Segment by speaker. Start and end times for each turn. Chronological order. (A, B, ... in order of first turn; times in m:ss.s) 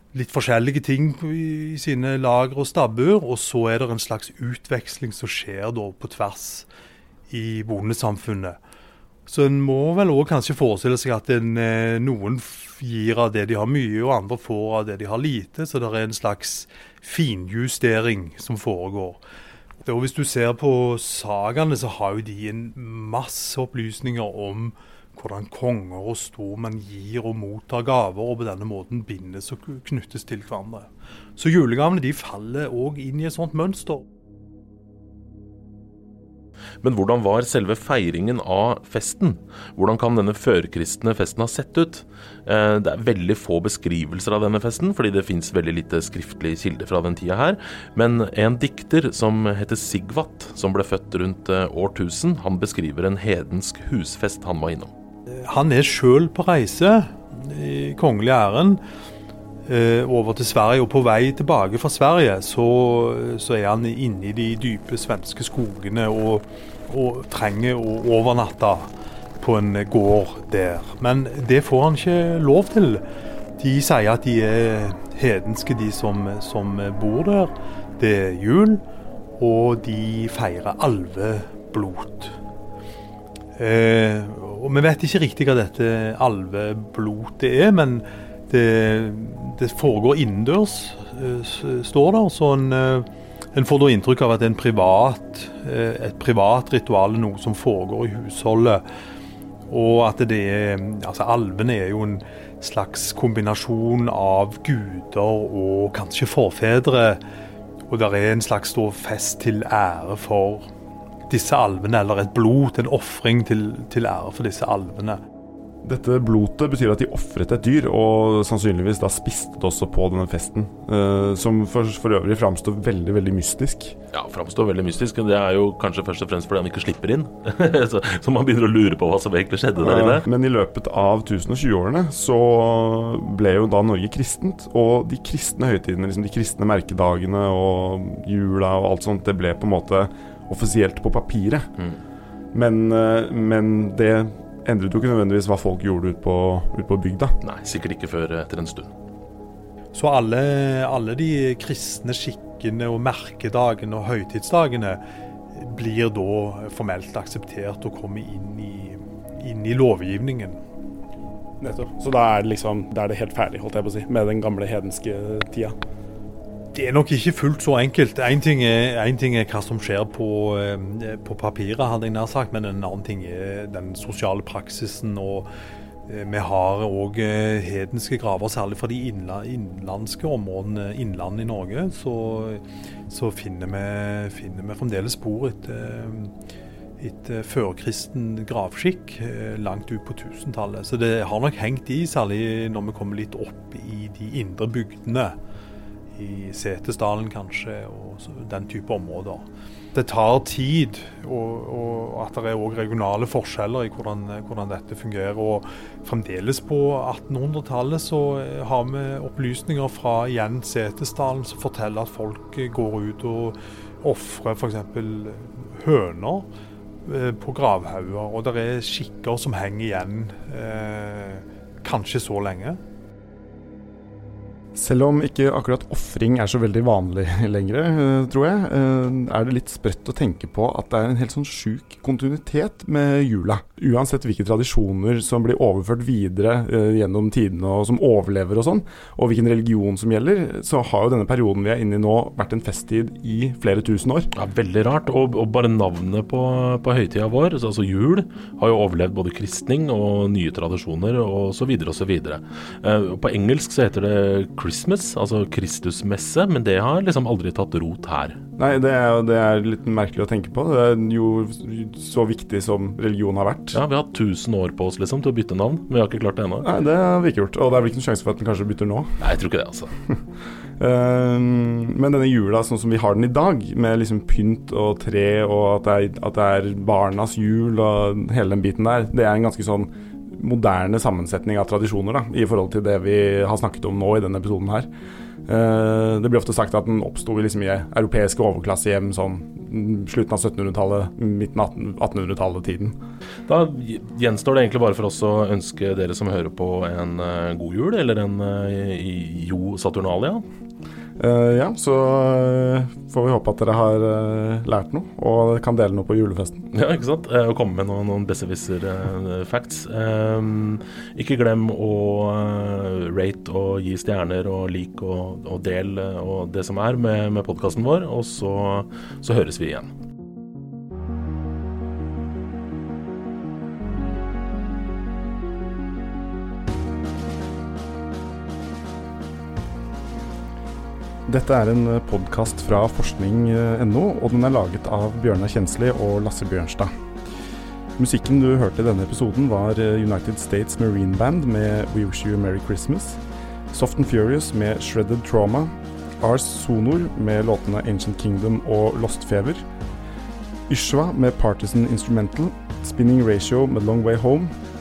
0:00.1-0:06.7 A
0:07.3-0:08.6 A
0:09.3-0:19.2 A
0:19.8-0:34.0 A
0:36.8-0:54.9 B
0:55.3-0:58.8 A
0:59.7-1:13.0 A
1:13.6-1:18.8 A
1:19.4-1:22.4 A
1:23.6-1:38.8 A
1:39.7-1:47.2 A
1:47.9-1:50.7 A
1:51.3-1:55.2 A
1:55.8-2:04.0 C
2:04.1-2:10.2 B
2:09.8-2:21.7 C
2:22.5-2:27.4 C
2:27.4-2:28.9 B
2:29.9-2:35.0 A
2:35.5-2:40.6 A
2:41.6-2:45.8 C
2:46.7-2:55.5 A
2:56.1-3:06.3 A
3:07.0-3:15.4 A
3:16.1-3:36.5 A
3:37.0-3:42.8 A
3:44.8-4:04.3 C
4:04.4-4:18.4 B
4:18.6-4:23.8 C
4:23.7-4:26.7 B
4:26.6-4:29.1 C
4:29.2-4:29.9 B
4:30.8-4:44.9 C
4:45.5-4:53.0 C
4:53.5-5:00.4 B
5:01.2-5:06.7 C
5:06.7-5:19.9 B
5:31.3-5:36.9 C
5:38.0-5:43.2 C
5:43.7-5:49.6 C
5:50.7-5:54.5 C